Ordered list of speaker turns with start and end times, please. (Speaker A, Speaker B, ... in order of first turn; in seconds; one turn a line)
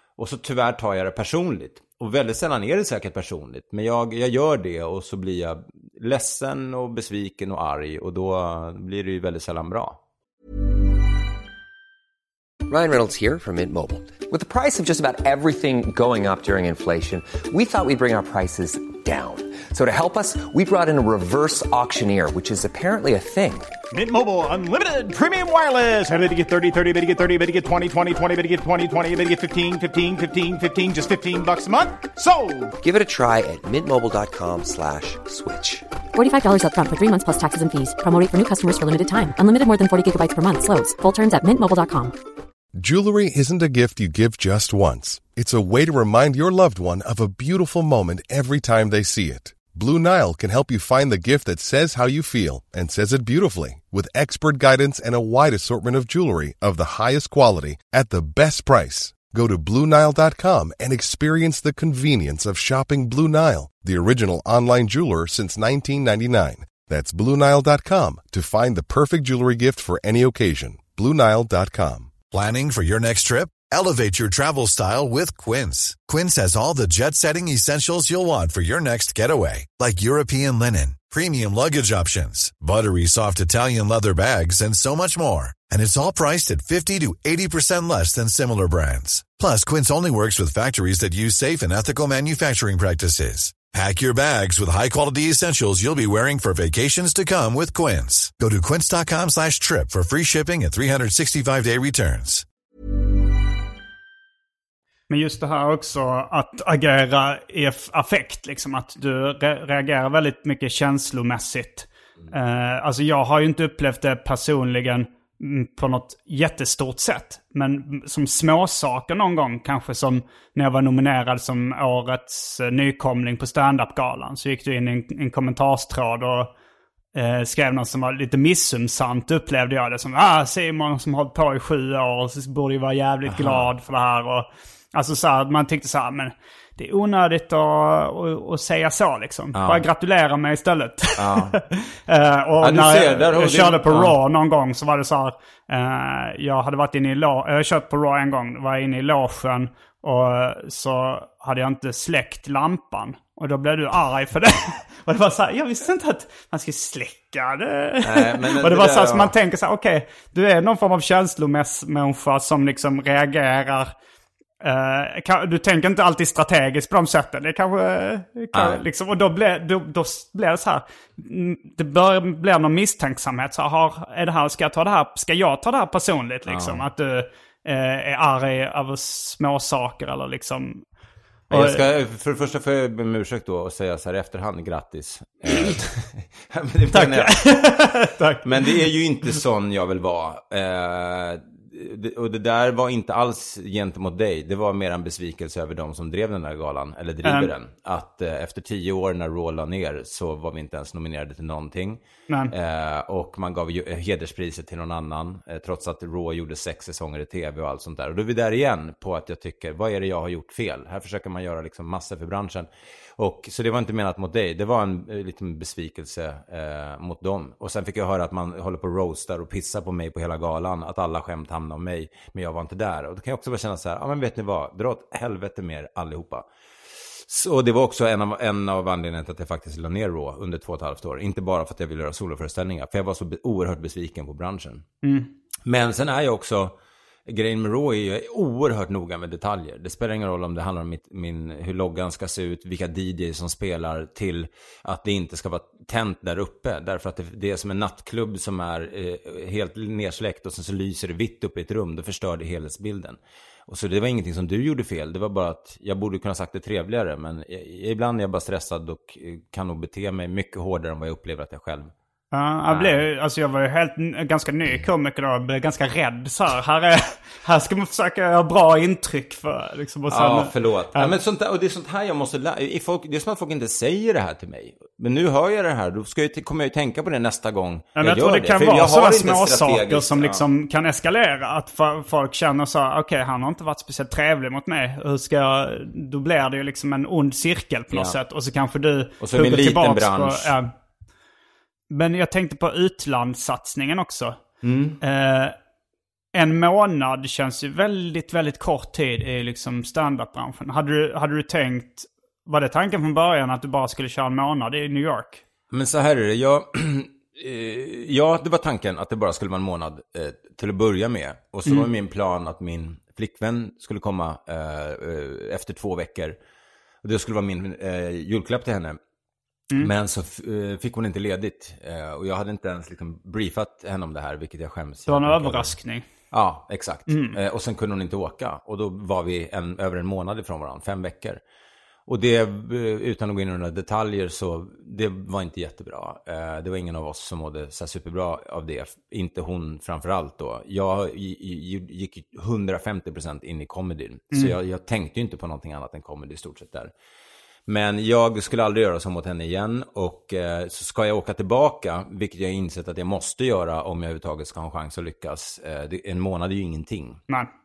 Speaker A: 0.2-10.0
Speaker B: 12.7-23.7
Speaker C: 23.9-32.7
Speaker B: 32.8-35.9
Speaker D: 36.1-42.2
Speaker E: 42.8-72.2
Speaker F: 72.3-102.4
Speaker G: 105.1-126.5
Speaker G: 127.1-163.9
Speaker A: 133.2-133.7
Speaker A: 139.5-139.8
Speaker A: 141.2-141.6
Speaker A: 142.6-144.2
Speaker A: 158.0-159.3
Speaker G: 164.6-180.8
Speaker A: 168.5-168.8
Speaker A: 176.4-176.8
Speaker G: 181.5-181.8
Speaker A: 181.5-187.4
Speaker G: 186.9-188.9
Speaker A: 188.4-226.5
Speaker G: 197.2-197.5
Speaker A: 227.2-234.8
Speaker G: 235.0-235.3
Speaker A: 235.6-236.7
Speaker A: 237.3-261.9
Speaker G: 262.3-271.1
Speaker A: 262.7-263.0
Speaker A: 270.1-280.4
Speaker G: 278.0-290.7
Speaker A: 287.9-288.2
Speaker A: 289.2-290.5
Speaker G: 291.9-294.4
Speaker A: 294.6-295.0
Speaker G: 295.0-295.5
Speaker G: 296.3-305.4
Speaker A: 305.7-316.4
Speaker A: 317.0-319.0
Speaker A: 319.8-325.7
Speaker G: 325.1-326.1
Speaker A: 326.3-331.4
Speaker G: 327.1-327.4
Speaker A: 332.1-346.9
Speaker A: 347.7-357.2